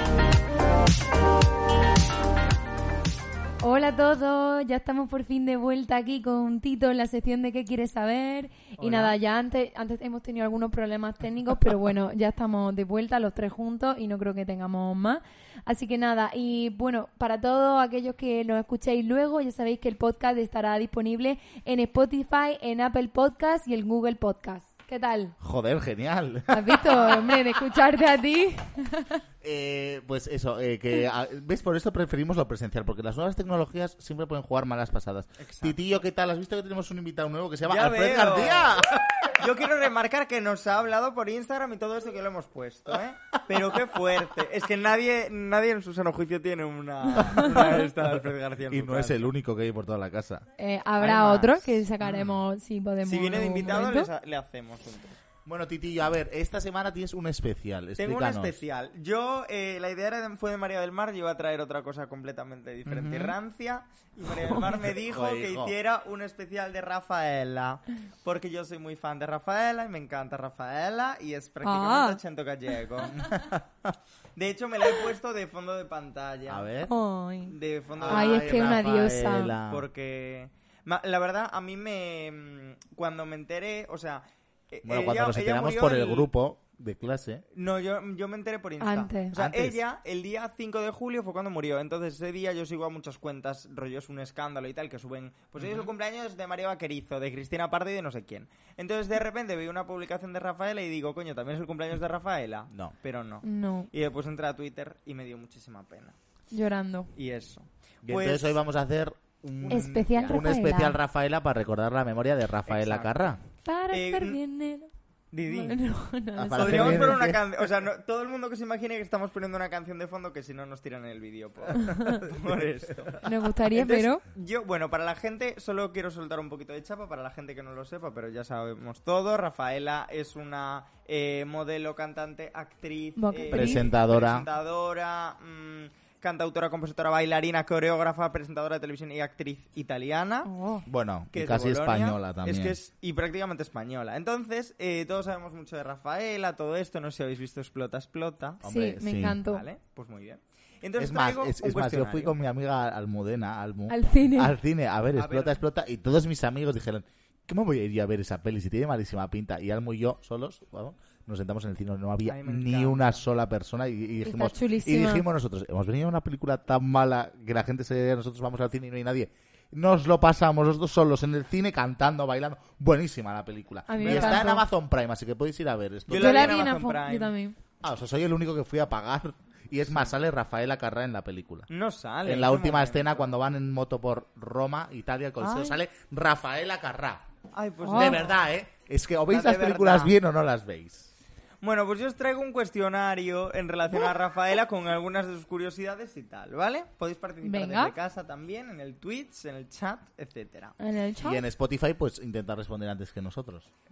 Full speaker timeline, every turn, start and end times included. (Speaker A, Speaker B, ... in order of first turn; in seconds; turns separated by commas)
Speaker A: 3.6-25.3, Speaker B: 8.8-9.2, Speaker C: 25.4-27.5, Speaker A: 26.5-29.2, Speaker C: 29.4-39.2, Speaker B: 35.4-36.0, Speaker B: 37.7-38.8, Speaker B: 39.4-49.3, Speaker C: 47.2-47.8, Speaker C: 48.7-50.5, Speaker A: 50.6-54.1, Speaker B: 51.0-51.8, Speaker B: 53.0-55.2, Speaker C: 55.5-58.6, Speaker B: 58.0-73.2, Speaker C: 62.9-63.4, Speaker C: 64.7-65.8, Speaker A: 71.6-72.2, Speaker C: 73.1-73.9, Speaker B: 74.4-76.7, Speaker C: 76.5-76.9, Speaker A: 76.8-79.6, Speaker B: 77.5-78.7, Speaker C: 78.0-79.9, Speaker B: 79.7-86.3, Speaker C: 84.8-87.4, Speaker B: 87.5-106.2, Speaker A: 88.8-89.3, Speaker C: 89.3-89.8, Speaker C: 95.6-95.9, Speaker A: 103.4-103.9, Speaker A: 106.5-107.1, Speaker B: 107.2-108.6, Speaker C: 108.0-113.4, Speaker B: 109.6-110.5, Speaker A: 109.7-111.0, Speaker B: 112.7-113.4, Speaker A: 113.6-114.9, Speaker B: 113.9-114.4, Speaker B: 115.3-115.8, Speaker A: 115.5-117.2, Speaker C: 116.4-117.5, Speaker B: 116.5-123.2, Speaker C: 122.1-122.6, Speaker A: 123.2-124.2, Speaker B: 123.7-140.5, Speaker A: 133.2-133.9, Speaker C: 133.5-134.5, Speaker A: 140.4-140.9, Speaker C: 140.9-142.8, Speaker B: 141.3-148.6, Speaker C: 148.6-149.4, Speaker A: 148.6-149.6, Speaker B: 149.5-152.4, Speaker C: 151.0-176.7, Speaker A: 153.9-154.6, Speaker B: 155.1-155.6, Speaker B: 162.3-163.2, Speaker A: 164.2-165.2, Speaker A: 173.9-174.7, Speaker B: 174.0-174.5, Speaker B: 176.1-177.4, Speaker A: 176.1-177.6, Speaker C: 177.8-181.7, Speaker B: 179.9-180.1, Speaker B: 181.7-183.3, Speaker C: 182.2-187.2, Speaker B: 185.4-185.8, Speaker B: 187.5-188.4, Speaker A: 187.8-188.2, Speaker C: 187.9-191.1, Speaker B: 189.3-190.2, Speaker B: 191.6-200.8, Speaker A: 197.4-197.9, Speaker A: 200.8-201.4, Speaker C: 201.2-203.7